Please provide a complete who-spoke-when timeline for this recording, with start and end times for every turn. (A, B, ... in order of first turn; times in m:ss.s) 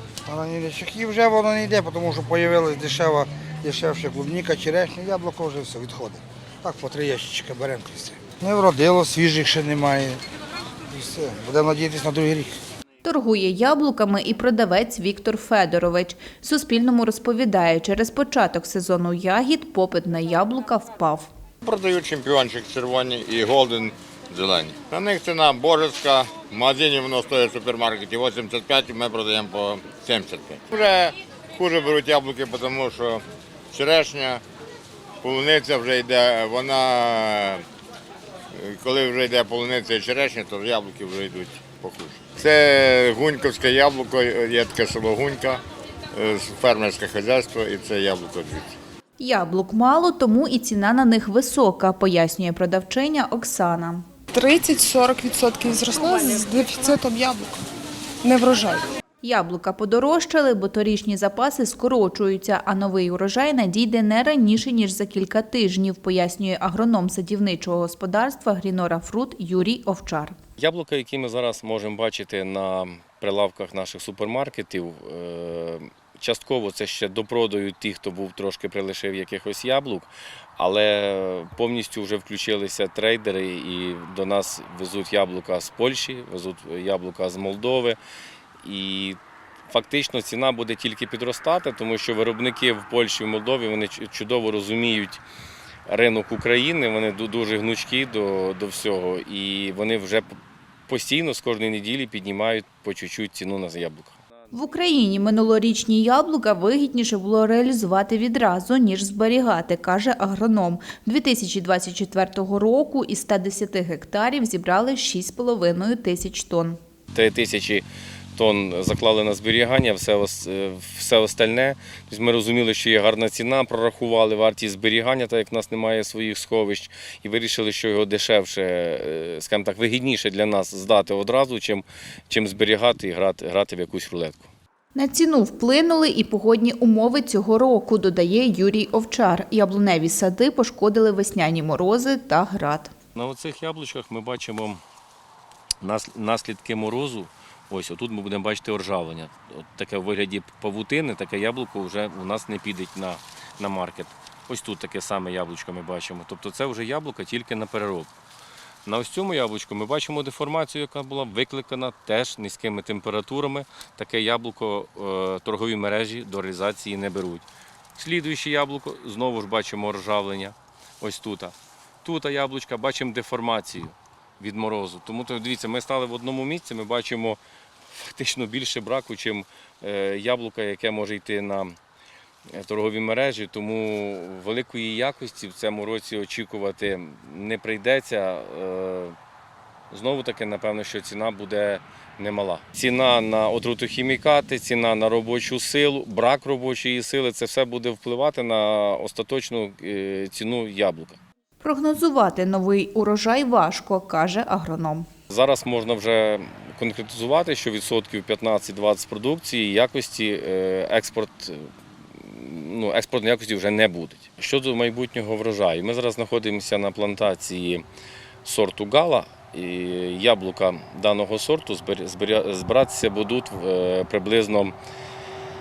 0:00.2-0:10.2 A
0:10.9-0:12.6 A
0:13.0-0:21.3 B
0:21.6-0:34.4 C
0:35.2-0:37.6 C
0:38.5-0:45.6 C
0:46.1-0:48.8 C
0:49.2-0:54.0 B
0:54.3-0:57.6 D
0:58.2-0:58.9 D
0:59.2-1:10.4 B
1:10.6-1:28.0 E
1:28.6-1:29.2 E
1:29.7-1:35.2 E
1:35.9-1:40.3 E
1:40.9-1:44.2 E
1:44.5-1:56.8 B
1:57.1-1:57.8 E
1:58.4-2:14.5 E
2:14.9-2:22.9 B
2:23.1-2:24.8 E
2:25.8-2:38.1 E
2:38.8-2:57.4 E
2:57.9-3:01.8 E
3:02.5-3:09.2 E
3:09.9-3:21.2 E
3:21.6-3:25.1 B
3:25.3-3:37.8 E
3:38.4-3:44.7 E